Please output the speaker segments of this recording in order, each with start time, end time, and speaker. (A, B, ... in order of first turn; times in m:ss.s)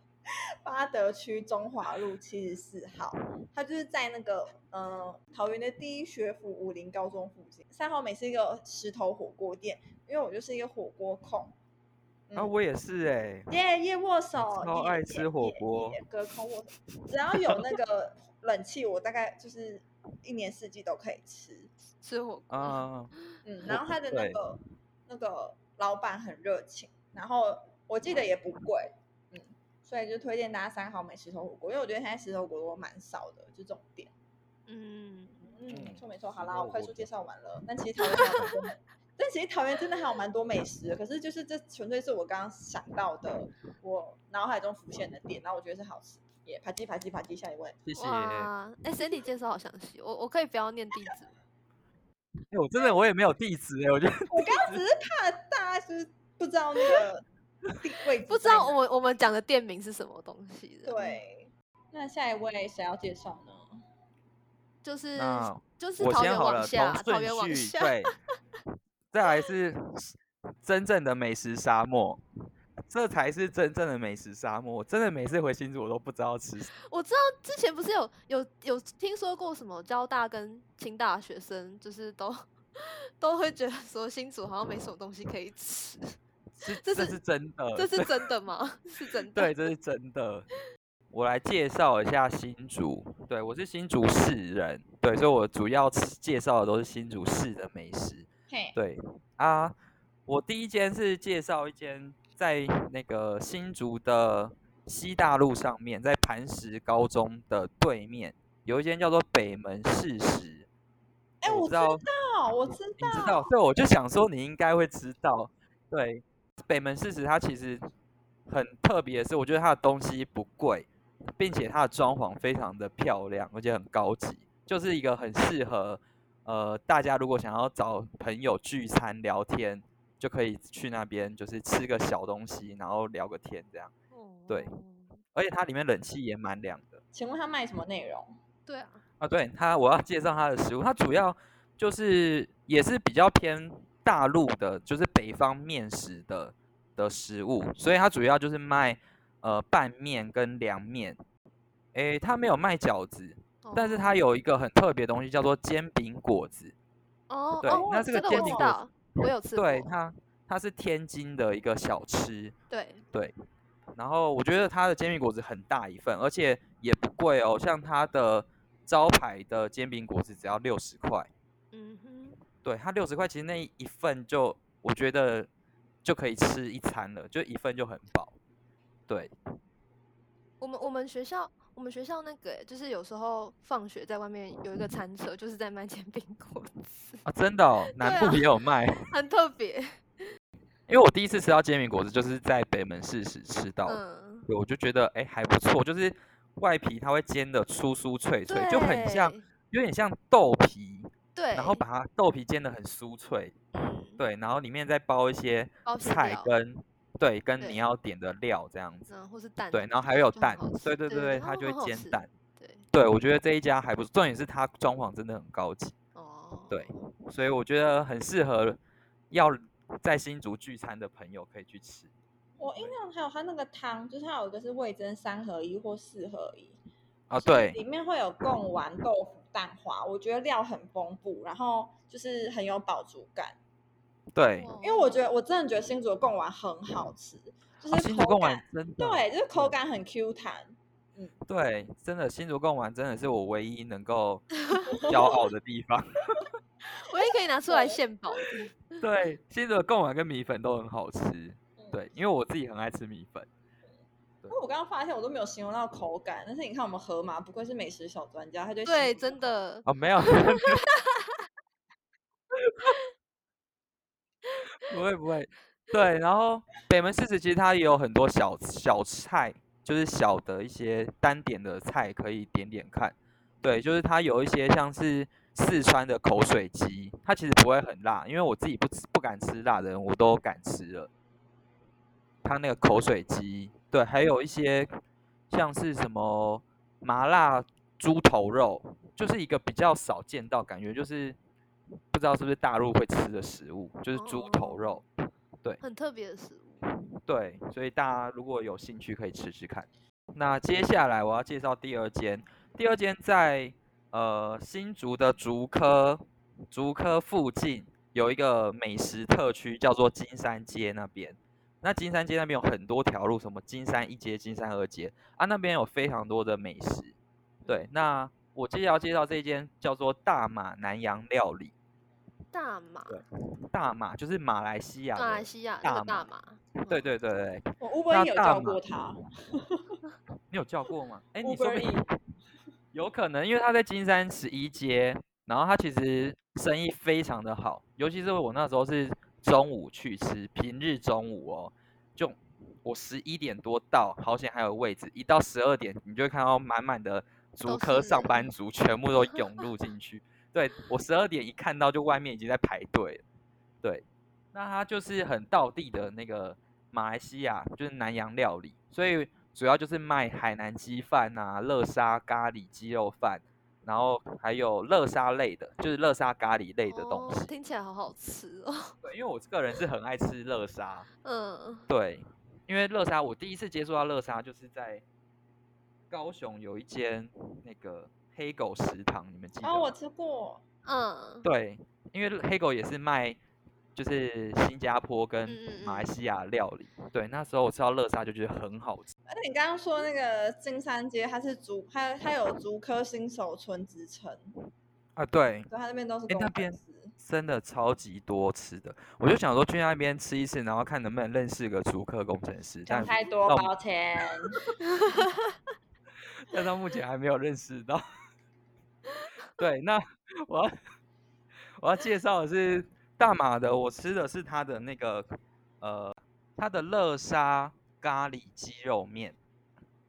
0:00.3-0:11.6 A
0:12.4-0:13.5 B
0:13.5-0:21.7 A
0:14.5-0:16.0 B
0:22.0-0:22.9 C
0:22.5-0:23.1 B
0:23.4-0:34.1 A
0:23.7-0:24.4 B
0:34.7-0:35.5 C
0:35.5-0:47.8 A
0:35.7-0:37.1 B
0:38.0-0:38.5 C
0:47.8-0:48.5 B
0:48.0-0:51.3 C
0:52.5-0:54.8 B
0:54.3-0:57.2 A
0:57.8-0:58.8 A
0:58.3-1:01.2 C
1:00.9-1:03.8 A
1:04.8-1:07.9 C
1:05.2-1:08.2 B
1:09.1-1:12.2 B
1:12.9-1:16.7 B
1:16.9-1:26.2 C
1:26.6-1:28.1 B
1:26.8-1:27.2 C
1:27.8-1:29.5 C
1:29.3-1:30.5 B
1:31.1-1:39.8 B
1:38.5-1:38.8 A
1:40.3-1:50.7 B
1:51.4-1:53.5 A
1:51.4-1:52.0 B
1:53.0-1:57.8 B
1:58.5-2:13.9 B
2:14.1-2:15.2 C
2:15.3-2:17.0 B
2:17.1-2:18.3 A
2:18.7-2:19.0 C
2:19.2-2:31.2 B
2:31.9-2:36.7 B
2:33.6-2:34.2 C
2:37.3-2:39.9 C
2:37.6-2:38.8 B
2:37.7-2:38.7 A
2:39.6-2:42.6 B
2:42.7-2:43.0 C
2:44.0-2:51.3 B
2:51.7-2:52.4 C
2:52.6-2:55.5 B
2:56.0-2:58.4 B
3:00.6-3:07.2 C
3:07.2-3:09.0 B
3:07.9-3:10.3 C
3:10.9-3:23.6 B
3:13.9-3:14.5 C
3:18.5-3:19.4 C
3:21.4-3:21.8 C
3:23.8-3:24.2 C
3:24.2-3:29.1 B
3:25.8-3:26.5 C
3:29.1-3:32.9 C
3:29.7-3:32.3 B
3:32.9-3:35.9 B
3:36.2-3:37.1 C
3:36.7-3:38.8 B
3:39.3-3:42.1 B
3:42.6-3:46.8 A
3:47.3-3:47.8 B
3:47.4-3:53.6 A
3:54.3-3:54.7 B
3:54.6-3:55.2 C
3:54.8-4:01.4 A
3:57.9-3:59.7 B
4:01.5-4:04.5 B
4:04.7-4:05.0 C
4:04.9-4:05.4 A
4:05.0-4:06.5 B
4:07.0-4:09.0 C
4:07.7-4:08.0 A
4:09.0-4:13.5 B
4:14.5-4:19.5 A
4:18.8-4:21.4 C
4:19.9-4:20.9 B
4:24.8-4:41.1 B
4:42.4-4:44.9 B
4:45.5-4:51.4 B
4:52.1-4:55.0 B
4:54.1-4:55.0 C
4:55.8-4:56.8 C
4:57.2-5:17.2 B
5:17.7-5:21.7 B
5:22.5-5:23.2 C
5:23.1-5:26.3 B
5:25.2-5:27.1 C
5:26.9-5:28.8 B
5:27.8-5:30.0 A
5:30.5-5:32.0 B
5:31.4-5:32.1 A
5:32.9-5:53.2 B
5:47.7-5:48.5 C
5:53.8-6:07.5 B
6:06.9-6:09.0 C
6:09.0-6:11.1 B
6:11.2-6:11.9 C
6:11.9-6:15.0 B
6:16.1-6:19.9 B
6:19.6-6:20.6 A
6:20.8-6:21.5 C
6:21.4-6:23.4 B
6:24.0-6:29.1 B
6:25.5-6:26.1 C
6:29.3-6:34.5 A
6:35.2-6:35.7 B
6:35.7-6:37.1 A
6:36.3-6:43.7 B
6:42.9-6:44.6 A
6:44.8-6:45.6 C
6:46.5-6:48.0 B
6:49.6-6:50.7 B
6:51.8-6:59.4 B